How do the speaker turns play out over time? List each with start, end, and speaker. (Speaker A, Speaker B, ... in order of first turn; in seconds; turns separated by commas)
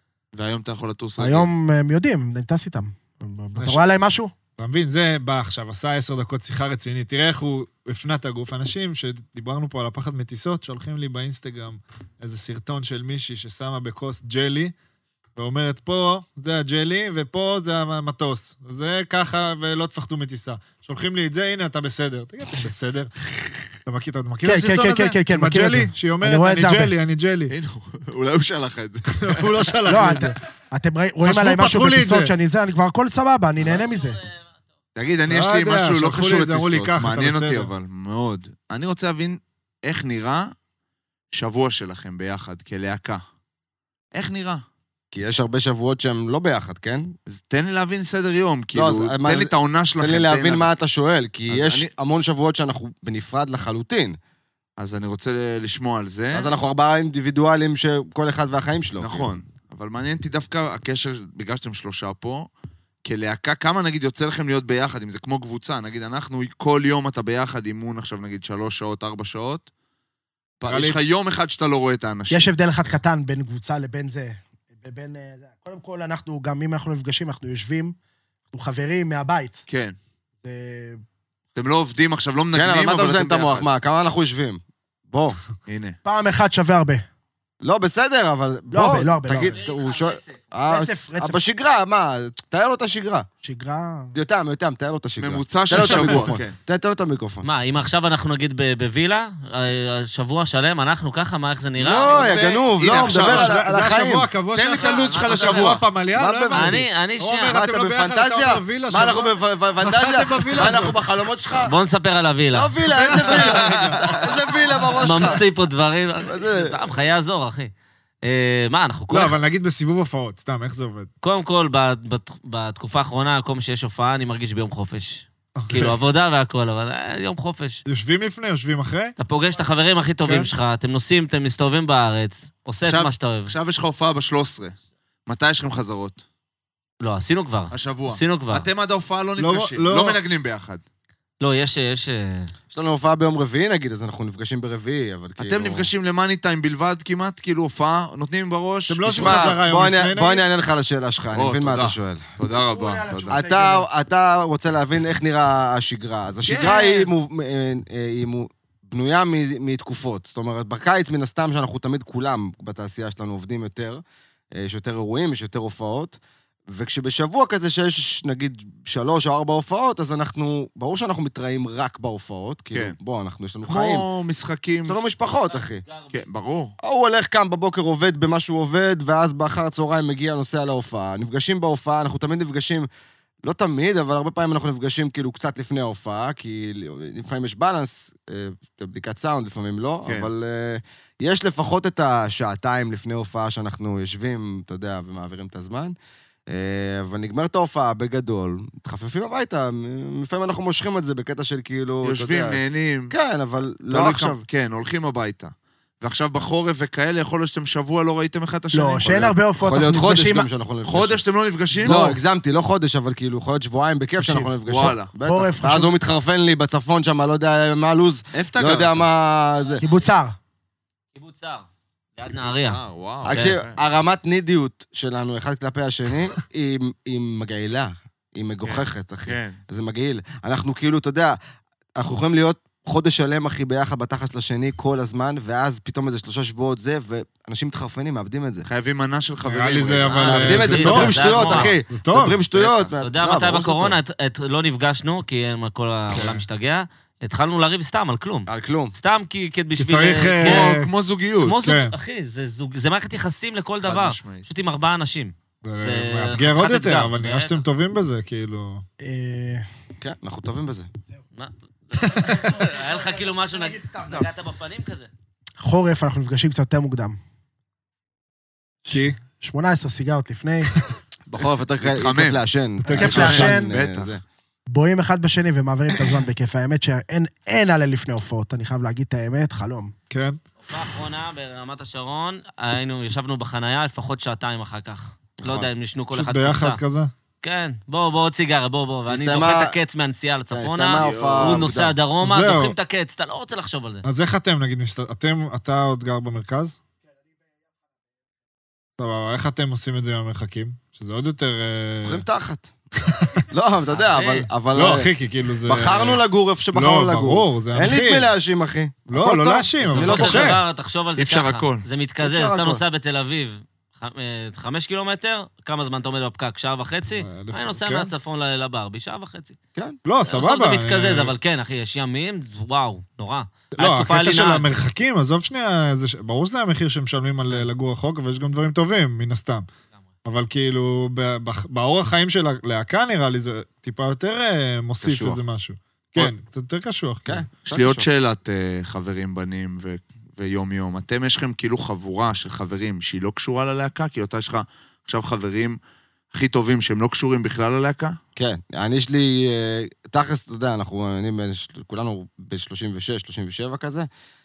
Speaker A: 0.3-1.5, Speaker B: 1.2-4.3, Speaker C: 3.6-3.8, Speaker C: 4.6-14.7, Speaker C: 15.4-23.2, Speaker C: 23.9-27.5, Speaker B: 24.4-26.9, Speaker A: 27.5-29.8, Speaker C: 29.1-30.4, Speaker B: 29.9-34.2, Speaker C: 31.2-32.3, Speaker D: 33.7-34.3, Speaker A: 35.0-40.5, Speaker C: 35.3-37.7, Speaker A: 41.3-43.2, Speaker A: 44.1-44.6, Speaker E: 45.1-47.1, Speaker A: 47.3-50.7, Speaker E: 48.7-54.2, Speaker A: 51.5-51.9, Speaker A: 54.8-56.5, Speaker E: 56.3-59.3, Speaker A: 59.0-62.5, Speaker A: 63.0-69.7, Speaker A: 70.6-72.5, Speaker C: 70.7-71.0, Speaker B: 72.3-78.0, Speaker B: 78.5-79.6, Speaker A: 79.7-80.0, Speaker B: 80.4-81.0, Speaker A: 81.5-83.7, Speaker E: 82.5-85.4, Speaker A: 85.7-86.0, Speaker B: 86.0-87.0, Speaker E: 87.6-93.3, Speaker B: 88.7-89.6, Speaker D: 89.3-90.4, Speaker B: 90.7-91.4, Speaker B: 93.4-94.1, Speaker E: 94.1-97.5, Speaker A: 95.2-96.6, Speaker D: 97.4-102.3, Speaker E: 101.8-104.3, Speaker A: 102.0-103.6, Speaker C: 102.9-111.0, Speaker A: 104.5-105.8, Speaker D: 104.8-105.8, Speaker E: 106.1-106.9, Speaker D: 106.5-107.6, Speaker E: 107.5-111.7, Speaker D: 111.6-113.5, Speaker E: 112.5-115.4, Speaker C: 112.9-114.0, Speaker A: 113.4-114.0, Speaker D: 115.0-117.7, Speaker E: 116.2-116.9, Speaker D: 118.2-119.4, Speaker C: 119.1-121.1, Speaker D: 121.2-127.8, Speaker C: 125.6-126.0, Speaker C: 127.9-129.2, Speaker D: 129.2-133.5, Speaker C: 130.2-130.5, Speaker A: 132.8-134.8, Speaker A: 135.3-136.2, Speaker D: 137.0-138.7, Speaker A: 137.7-140.8, Speaker C: 139.4-140.2, Speaker D: 141.4-142.5, Speaker E: 142.7-145.9, Speaker A: 145.4-149.6, Speaker C: 148.9-150.4, Speaker E: 149.1-152.3, Speaker A: 151.3-153.4, Speaker B: 152.4-153.9, Speaker E: 153.3-166.2, Speaker A: 156.5-157.1, Speaker E: 166.7-174.1, Speaker A: 173.6-175.0, Speaker E: 174.9-175.8, Speaker D: 175.5-176.2, Speaker A: 176.1-176.8, Speaker E: 176.8-182.9, Speaker E: 183.4-195.9, Speaker E: 196.5-204.4, Speaker A: 202.0-203.2, Speaker A: 203.9-209.4, Speaker B: 208.7-210.5, Speaker E: 209.6-211.2, Speaker A: 210.8-212.2, Speaker E: 211.8-219.8, Speaker B: 214.2-214.6, Speaker A: 214.7-215.1, Speaker B: 215.1-216.0, Speaker A: 218.3-219.1, Speaker D: 219.8-220.1, Speaker B: 219.8-220.4, Speaker D: 221.2-223.6, Speaker A: 222.4-223.8, Speaker E: 223.2-231.4, Speaker A: 228.7-229.6, Speaker E: 232.0-238.7, Speaker A: 238.7-241.7, Speaker C: 239.4-242.4, Speaker D: 240.1-241.8, Speaker E: 240.3-244.0, Speaker A: 242.5-243.0, Speaker D: 243.0-250.8, Speaker E: 248.5-248.9, Speaker C: 249.8-250.9, Speaker A: 250.4-251.6, Speaker D: 251.4-257.6, Speaker C: 251.6-251.9, Speaker A: 253.8-254.5, Speaker C: 255.6-258.8, Speaker B: 259.0-259.7, Speaker E: 260.0-260.9, Speaker D: 261.4-265.1, Speaker B: 262.1-264.3, Speaker B: 265.6-267.2, Speaker C: 268.9-269.2, Speaker B: 269.2-270.7, Speaker E: 271.3-274.2, Speaker A: 271.8-274.2, Speaker B: 272.9-273.8, Speaker B: 274.7-279.9, Speaker C: 280.1-280.4, Speaker D: 280.6-286.8, Speaker E: 285.4-285.7, Speaker C: 286.1-287.1, Speaker D: 287.4-294.1, Speaker E: 289.1-289.8, Speaker E: 290.5-291.9, Speaker A: 290.9-291.7, Speaker C: 292.2-292.7, Speaker C: 294.0-296.8, Speaker C: 299.0-302.2, Speaker E: 302.1-302.7, Speaker C: 303.1-303.4, Speaker E: 303.4-305.1, Speaker D: 303.9-304.5, Speaker C: 304.7-308.3, Speaker E: 305.7-310.6, Speaker C: 309.1-310.6, Speaker D: 309.8-319.6, Speaker A: 311.2-311.9, Speaker E: 312.2-312.8, Speaker C: 317.2-318.1, Speaker C: 320.1-321.4, Speaker D: 320.3-324.6, Speaker C: 323.8-329.7, Speaker C: 330.2-337.5, Speaker E: 335.0-335.4, Speaker E: 337.3-338.1, Speaker A: 337.6-345.8, Speaker A: 346.3-348.2, Speaker E: 348.4-354.1